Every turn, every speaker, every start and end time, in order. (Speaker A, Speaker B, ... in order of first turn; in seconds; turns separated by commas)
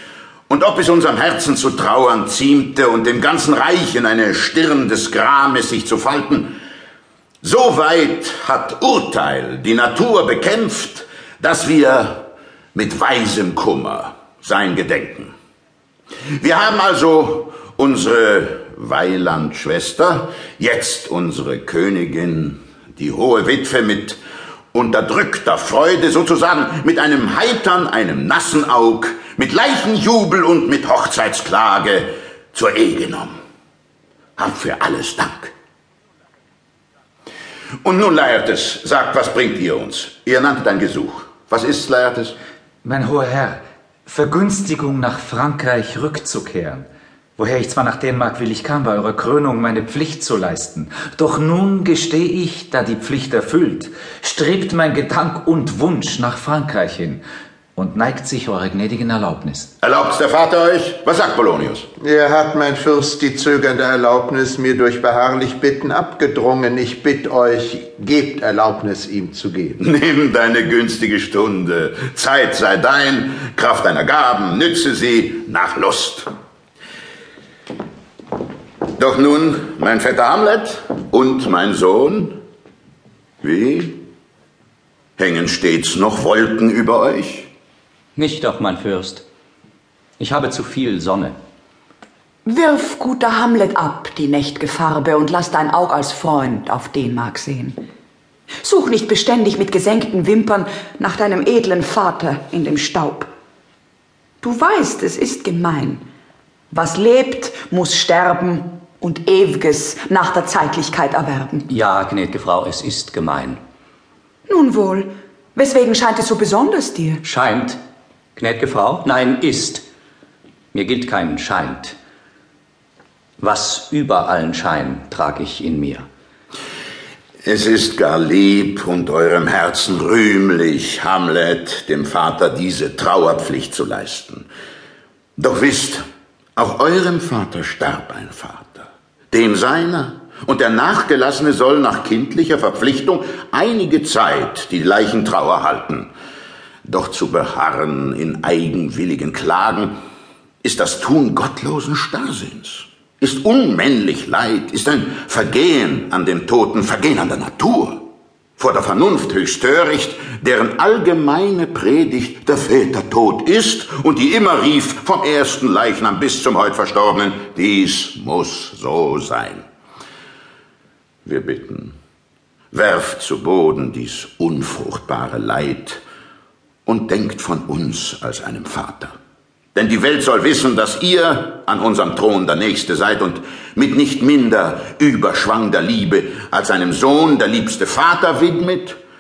Speaker A: 0.5-6.6, Speaker A: 7.4-15.3, Speaker A: 16.4-24.2, Speaker A: 24.7-33.4, Speaker A: 34.4-35.5, Speaker A: 37.8-42.3, Speaker B: 42.8-46.9, Speaker B: 47.4-57.2, Speaker B: 57.8-59.7, Speaker A: 59.8-61.9, Speaker C: 62.0-69.8, Speaker A: 69.8-76.3, Speaker A: 79.0-82.4, Speaker A: 83.4-84.0, Speaker A: 85.2-87.5, Speaker D: 88.2-89.2, Speaker D: 90.2-91.4, Speaker E: 92.5-97.8, Speaker E: 98.6-103.3, Speaker E: 104.4-106.0, Speaker E: 106.7-111.7, Speaker D: 111.7-113.6, Speaker E: 114.5-117.2, Speaker D: 117.2-117.8, Speaker D: 118.4-119.8, Speaker D: 120.7-122.0, Speaker D: 123.4-126.1, Speaker A: 127.4-134.5, Speaker A: 135.4-136.0, Speaker A: 136.6-146.1, Speaker A: 146.8-149.9, Speaker A: 150.6-158.1, Speaker A: 158.6-169.7, Speaker A: 171.2-171.9, Speaker A: 172.7-176.0, Speaker A: 176.8-179.2, Speaker A: 179.8-189.0